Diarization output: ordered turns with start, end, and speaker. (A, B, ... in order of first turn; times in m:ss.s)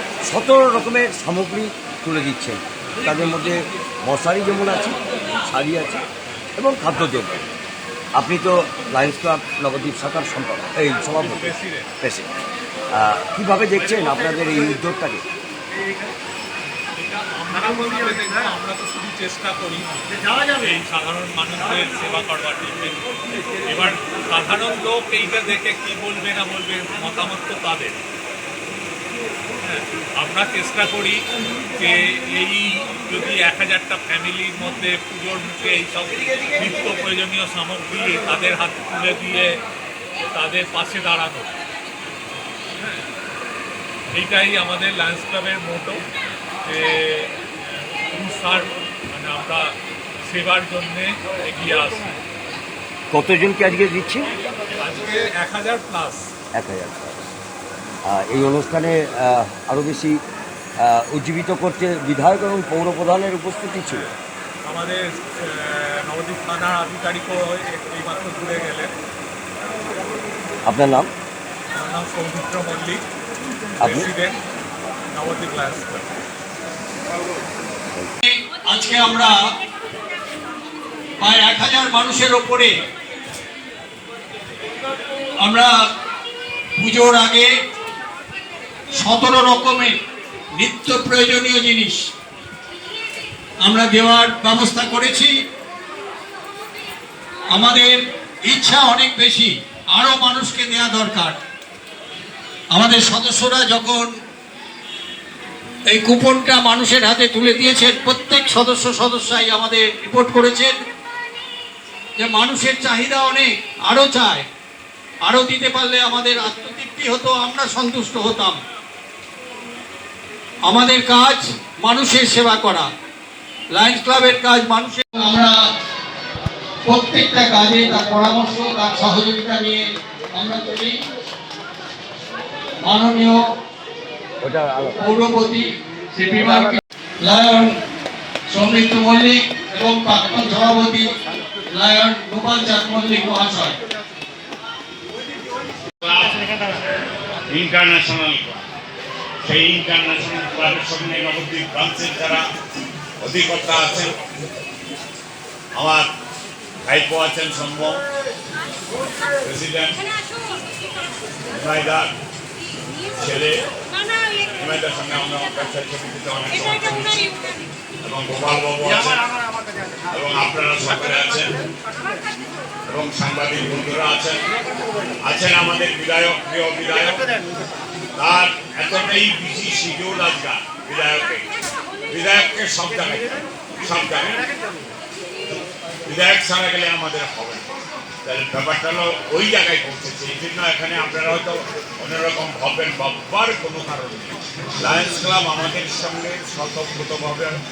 0:00.2-0:06.0 A
0:02.8-0:03.1 B
0:06.6-0:07.4 A
0:08.1-0:12.3 A
0:11.0-0:11.9 B
0:12.9-0:15.2 A
0:16.9-0:23.0 B
0:23.7-0:28.0 B
0:29.6-0:31.2 B
0:31.7-0:39.6 B
0:40.2-0:41.5 B
0:44.1-0:46.1 B
0:46.6-0:52.2 B
0:53.1-0:54.3 A
0:54.8-0:56.3 B
0:56.5-0:57.2 A
0:58.0-1:00.2 A
1:00.8-1:04.1 A
1:04.6-1:08.9 B
1:10.6-1:11.1 A
1:11.7-1:13.0 B
1:13.8-1:14.4 B
1:13.8-1:14.1 A
1:15.1-1:16.1 B
1:18.2-1:19.3 C
1:21.2-1:22.8 C
1:25.4-1:25.7 C
1:26.8-1:27.5 C
1:28.9-1:30.0 C
1:30.6-1:32.1 C
1:33.6-1:35.4 C
1:37.5-1:41.4 C
1:42.7-1:44.1 C
1:45.9-1:50.8 C
1:52.2-1:54.4 C
1:55.2-1:58.6 C
2:00.6-2:02.9 C
2:03.7-2:05.6 C
2:06.8-2:11.0 C
2:12.8-2:13.4 C
2:14.4-2:15.0 A
2:15.0-2:17.8 C
2:18.5-2:21.1 C
2:21.7-2:23.7 C
2:26.0-2:26.5 D
2:27.5-2:28.6 D
2:29.4-2:32.4 D
2:33.2-2:34.1 D
2:35.7-2:36.1 D
2:36.8-2:38.0 D
2:39.4-2:40.0 D
2:41.5-2:42.1 D
2:43.1-2:43.6 D
2:44.5-2:47.3 D
2:48.0-2:49.2 D
2:50.1-2:51.5 D
2:52.9-2:54.4 D
2:55.2-2:57.2 D
2:58.2-3:01.5 D
3:02.1-3:04.4 D
3:06.0-3:07.7 D
3:08.2-3:17.6 D